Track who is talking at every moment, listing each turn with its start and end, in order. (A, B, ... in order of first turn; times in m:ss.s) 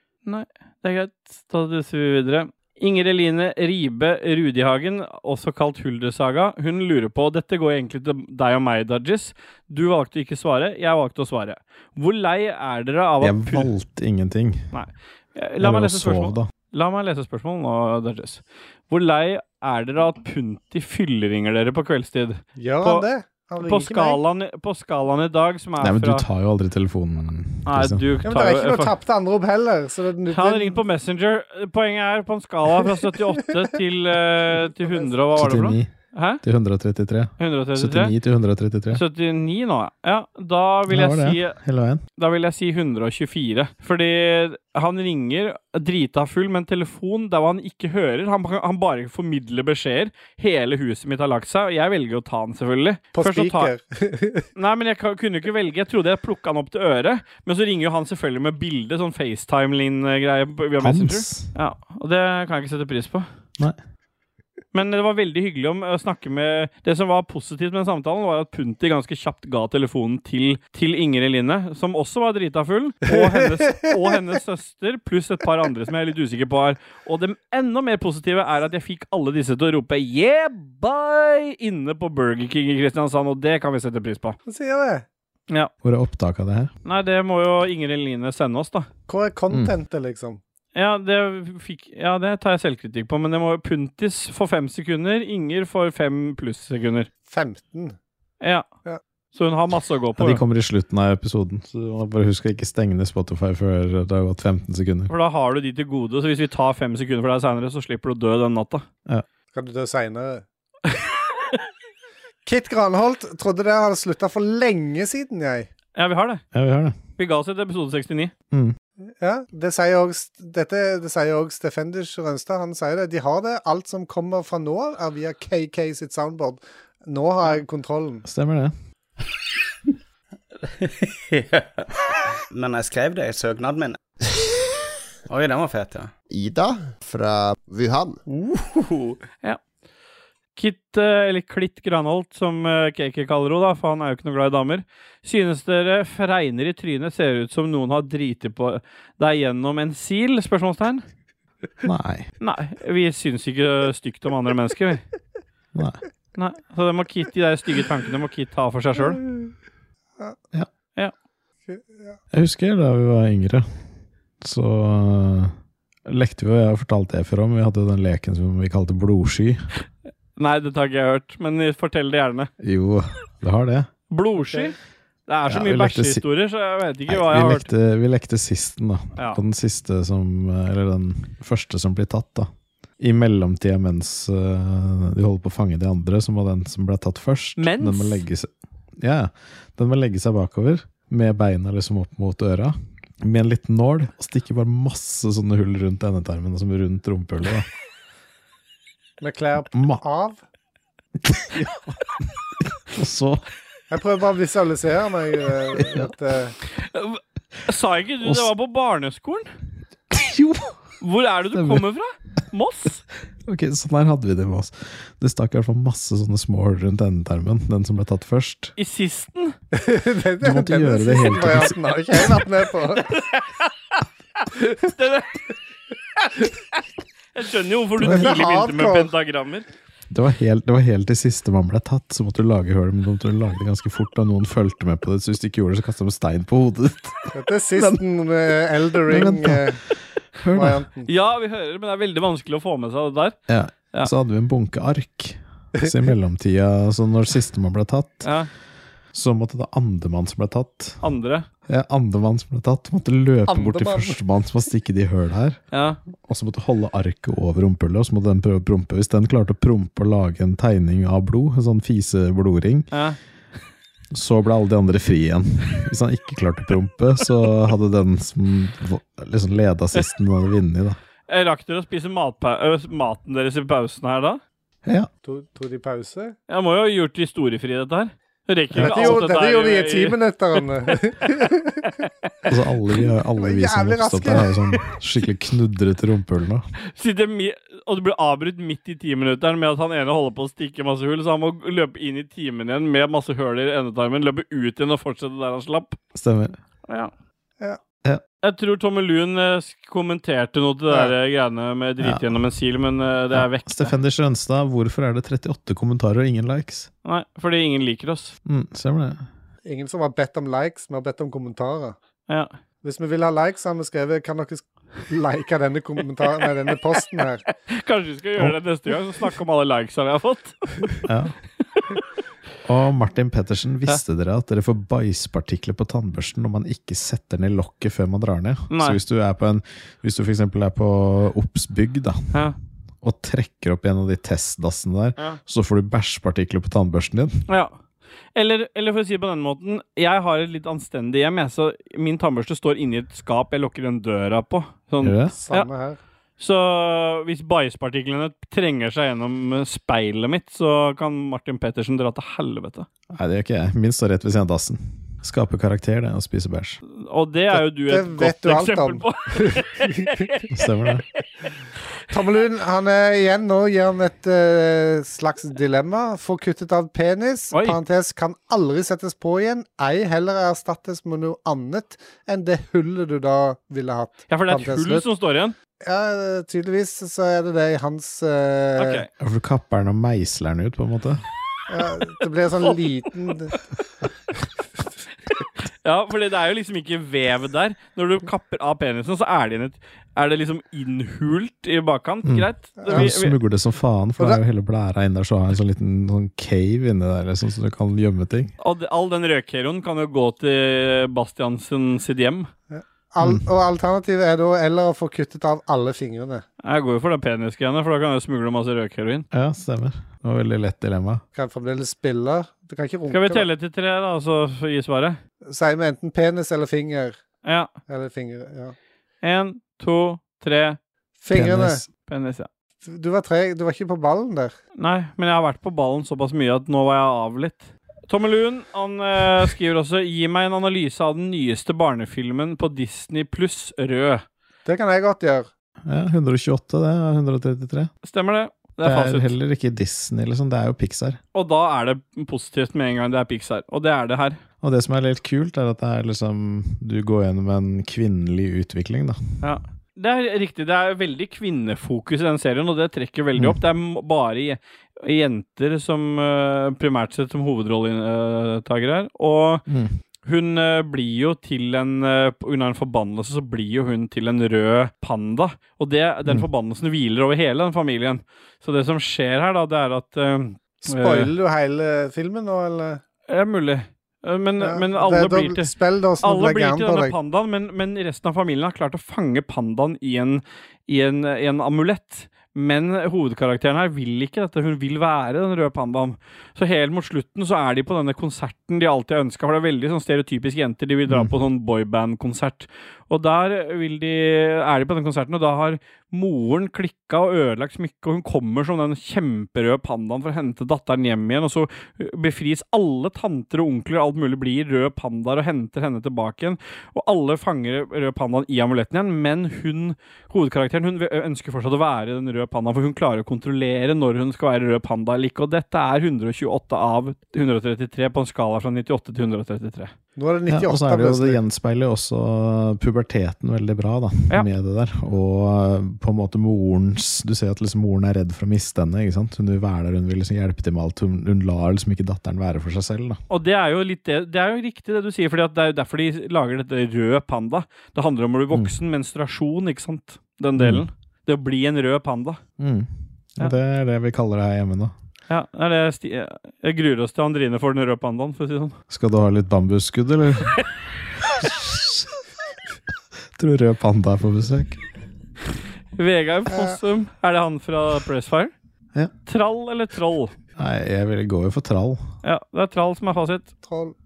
0:00.3-0:13.7 A
0:13.2-0:14.7 B
0:14.7-0:23.0 A
0:15.6-0:16.5 B
0:22.6-0:24.2 C
0:23.6-0:26.2 A
0:25.8-0:28.0 B
0:27.6-0:28.9 A
0:28.2-0:30.8 C
0:30.3-0:36.4 A
0:34.8-0:35.1 C
0:35.3-0:35.9 B
0:36.4-0:39.0 B
0:37.4-0:38.1 A
0:38.9-0:41.6 A
0:40.9-0:42.0 B
0:42.2-0:53.7 A
0:53.1-0:54.4 C
0:54.6-1:03.3 A
1:00.8-1:01.5 B
1:04.7-1:24.4 A
1:13.3-1:13.9 C
1:24.5-1:25.0 C
1:25.8-1:26.7 B
1:26.8-1:28.9 A
1:29.1-1:30.4 C
1:30.7-1:37.1 A
1:37.3-1:38.0 C
1:38.4-1:38.6 A
1:39.3-1:40.4 A
1:40.2-1:45.1 B
1:45.1-1:48.8 A
1:49.5-1:50.4 C
1:52.4-1:55.7 C
1:55.9-1:56.4 A
1:56.5-1:57.0 B
1:57.2-1:58.3 A
1:59.2-2:08.2 C
2:08.2-2:08.7 B
2:11.3-2:11.7 D
2:12.5-2:14.0 D
2:15.3-2:16.1 D
2:16.3-2:18.2 E
2:18.3-2:19.2 D
2:20.6-2:31.0 A
2:31.8-2:32.3 B
2:32.4-2:35.0 A
2:35.7-2:36.0 B
2:36.4-2:39.2 A
2:41.7-2:42.2 C
2:42.3-2:43.7 B
2:44.4-2:45.6 B
2:46.0-2:49.7 B
2:50.4-2:52.5 A
2:52.6-2:53.9 B
2:54.1-2:54.7 A
2:55.3-2:57.7 A
2:55.5-2:56.2 B
2:57.1-3:17.7 B
3:07.6-3:08.2 A
3:19.2-3:20.4 C
3:19.7-3:20.0 B
3:21.2-3:23.4 B
3:23.9-3:26.6 C
3:25.8-3:26.1 B
3:26.8-3:29.5 A
3:30.1-3:30.8 B
3:31.0-3:33.0 A
3:31.5-3:31.8 B
3:33.4-3:38.7 B
3:38.8-3:39.6 A
3:39.7-3:43.2 C
3:40.4-3:42.4 B
3:43.1-3:43.7 A
3:44.9-3:45.4 A
3:47.3-3:49.6 A
3:48.0-3:48.4 B
3:48.0-3:49.1 C
3:50.1-3:58.0 B
3:57.3-3:59.8 C
3:59.0-4:00.8 B
4:00.5-4:01.1 C
4:01.0-4:03.4 A
4:03.5-4:08.3 B
4:08.2-4:08.5 A
4:09.1-4:11.0 B
4:11.0-4:11.4 A
4:11.7-4:15.6 B
4:13.5-4:14.2 C
4:15.7-4:16.0 A
4:16.2-4:22.9 B
4:22.9-4:23.2 A
4:24.1-4:31.0 B
4:31.3-4:34.4 A
4:35.2-4:36.4 C
4:36.5-4:40.6 A
4:38.7-4:39.3 B
4:38.8-4:41.9 C
4:41.8-4:42.5 A
4:42.5-4:46.6 B
4:43.4-4:44.5 C
4:46.9-4:56.0 A
4:56.1-4:56.6 B
4:58.4-5:03.9 A
5:02.0-5:02.3 B
5:03.3-5:06.9 B
5:07.0-5:08.3 A
5:08.4-5:09.2 B
5:09.6-5:12.0 C
5:12.8-5:17.4 C
5:17.7-5:20.7 A
5:21.0-5:21.3 B
5:22.6-5:32.4 B
5:28.7-5:29.0 A
5:33.0-5:37.4 B
5:37.5-5:37.7 A
5:38.3-5:45.7 A
5:45.0-5:45.4 B
5:45.4-5:46.0 C
5:46.4-5:52.9 A
5:53.1-5:56.8 B
5:56.9-6:00.4 A
5:57.6-6:00.4 C
6:00.5-6:01.0 B
6:02.1-6:15.0 C
6:07.5-6:07.8 A
6:14.3-6:15.6 A
6:15.8-6:19.0 C
6:18.8-6:19.1 A
6:19.2-6:21.2 B
6:21.7-6:23.6 C
6:25.8-6:33.3 A
6:32.2-6:38.5 B
6:32.8-6:33.1 C
6:38.6-6:42.5 A
6:42.7-6:46.4 C
6:46.6-6:49.3 A
6:49.3-6:51.2 B
6:51.3-6:53.5 C
6:53.1-6:55.2 A
6:55.4-6:57.2 C
6:57.4-6:57.7 A
6:57.9-6:58.7 C
6:59.2-7:00.8 A
7:01.2-7:01.8 C
7:01.3-7:01.8 B
7:02.1-7:02.5 A
7:02.8-7:04.5 C
7:04.8-7:14.2 A
7:14.6-7:15.5 C
7:15.8-7:17.9 B
7:18.0-7:19.3 A
7:18.8-7:21.2 B
7:21.3-7:24.4 A
7:24.6-7:29.2 B
7:29.4-7:39.6 A
7:39.7-7:39.9 B
7:40.3-7:51.3 A
7:50.8-7:53.0 C
7:53.3-7:55.7 A
7:54.6-7:57.1 C
7:56.2-8:39.9 A
8:11.1-8:11.3 B
8:40.2-8:41.4 C
8:40.5-8:53.2 B
8:53.3-9:02.4 A
9:00.6-9:00.8 B
9:02.6-9:04.9 B
9:05.3-9:08.8 A
9:08.9-9:10.7 B
9:11.4-9:12.1 B
9:13.4-9:14.8 B
9:16.0-9:18.5 A
9:16.5-9:16.8 C
9:19.3-9:20.3 A
9:20.6-9:22.1 B
9:22.2-9:23.5 A
9:23.6-9:23.9 C